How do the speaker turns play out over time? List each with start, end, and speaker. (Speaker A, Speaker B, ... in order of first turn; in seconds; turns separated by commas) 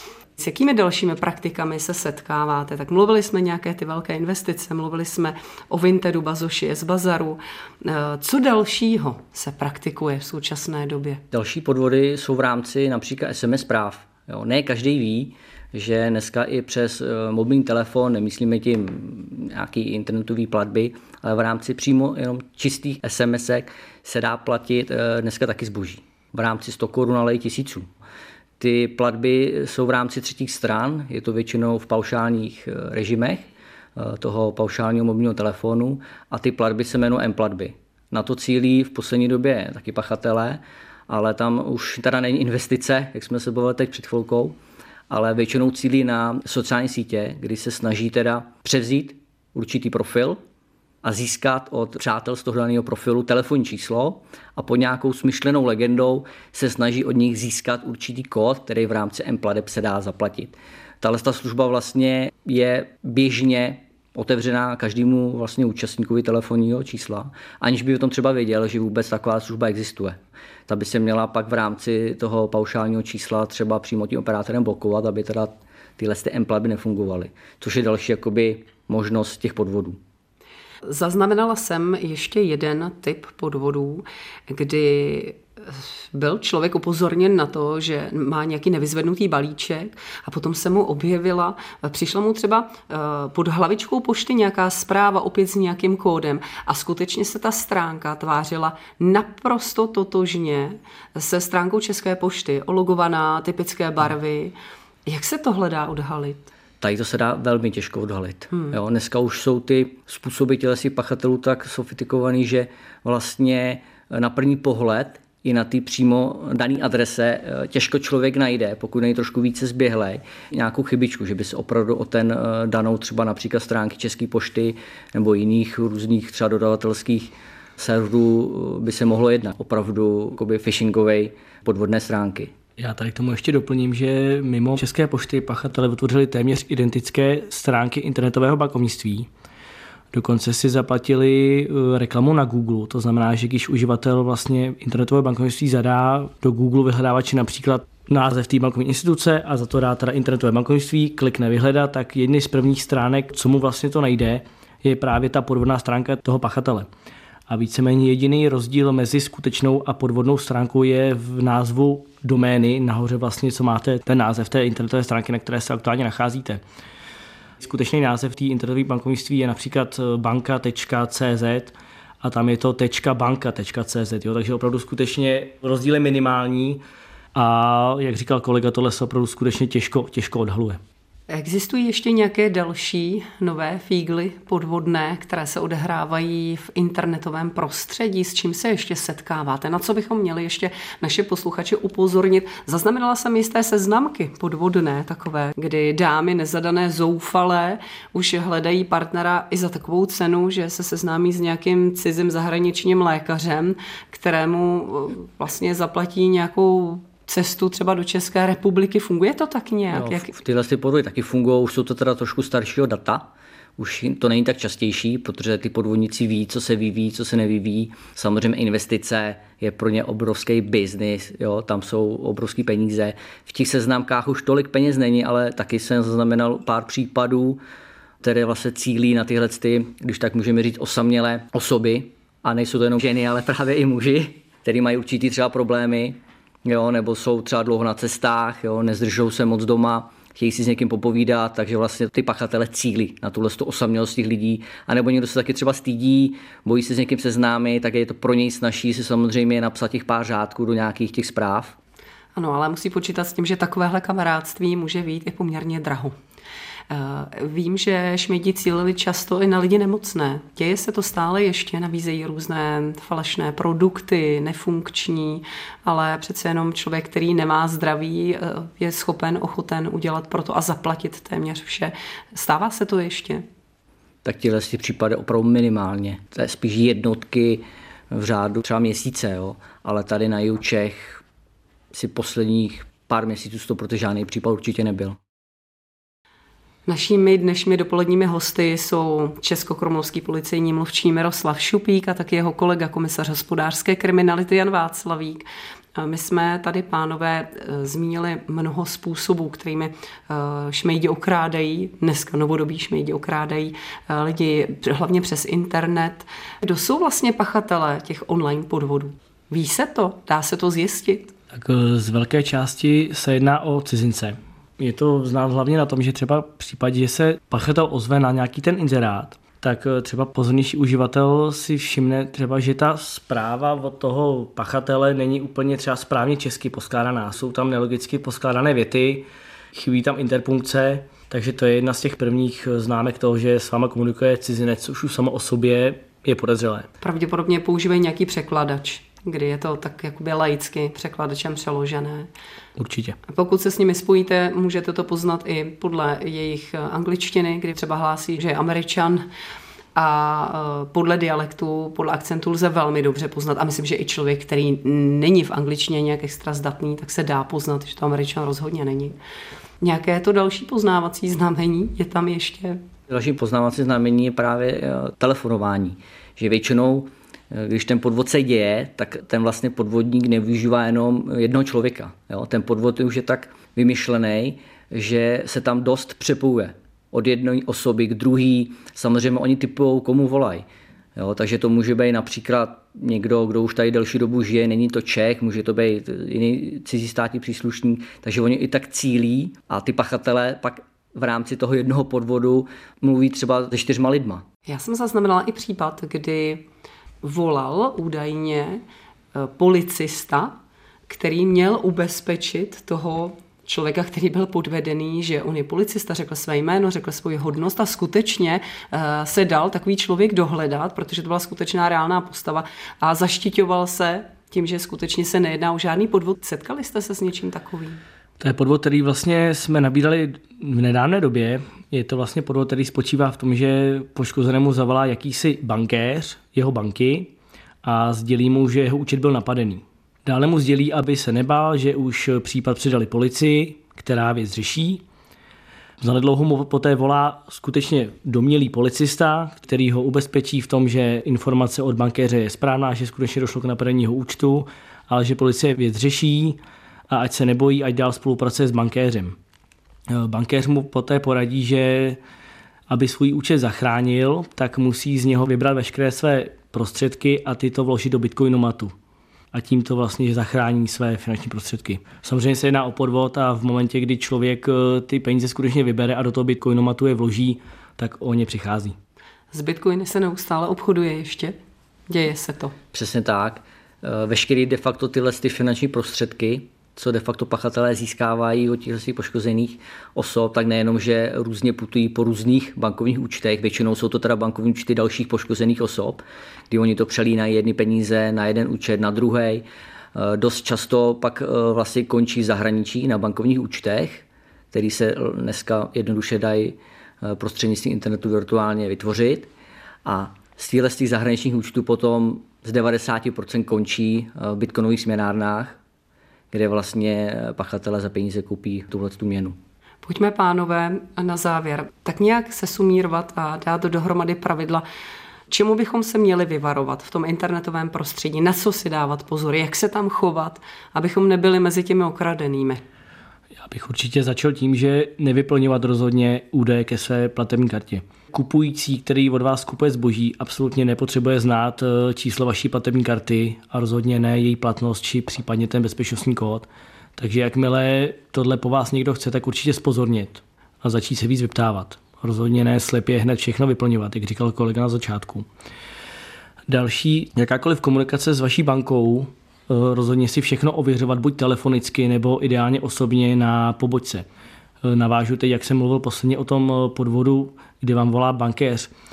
Speaker A: 0.4-11.2, Speaker B: 11.3-27.9, Speaker B: 28.6-44.6, Speaker B: 45.1-50.4, Speaker B: 51.0-80.0, Speaker A: 80.9-104.5, Speaker A: 105.1-106.5, Speaker B: 106.8-132.5, Speaker C: 132.8-139.3, Speaker C: 140.1-156.9, Speaker C: 157.5-166.6, Speaker C: 167.6-176.8, Speaker C: 177.3-180.8, Speaker A: 181.3-210.3, Speaker B: 209.9-227.6, Speaker B: 228.2-251.8, Speaker A: 252.4-256.1, Speaker A: 256.9-273.4, Speaker B: 274.2-281.2, Speaker B: 281.9-285.2, Speaker A: 286.9-295.4, Speaker A: 296.0-311.3, Speaker C: 311.5-336.9, Speaker A: 337.0-342.3, Speaker C: 342.8-343.2, Speaker A: 343.3-349.3, Speaker A: 350.0-359.1, Speaker A: 359.8-362.8, Speaker B: 363.1-394.4, Speaker A: 394.7-396.7, Speaker A: 397.2-398.8, Speaker A: 399.4-400.6, Speaker A: 401.1-418.0, Speaker C: 418.4-427.3, Speaker C: 427.8-435.0, Speaker C: 436.0-446.6, Speaker C: 447.1-449.4, Speaker C: 450.1-452.2, Speaker C: 452.9-458.9, Speaker C: 459.5-468.9, Speaker A: 469.5-471.6, Speaker A: 472.1-472.8, Speaker B: 472.9-499.5, Speaker B: 500.1-505.8, Speaker B: 506.5-509.6, Speaker A: 510.0-514.8, Speaker A: 515.5-522.8, Speaker C: 523.6-545.5, Speaker C: 546.7-554.3, Speaker C: 554.8-558.9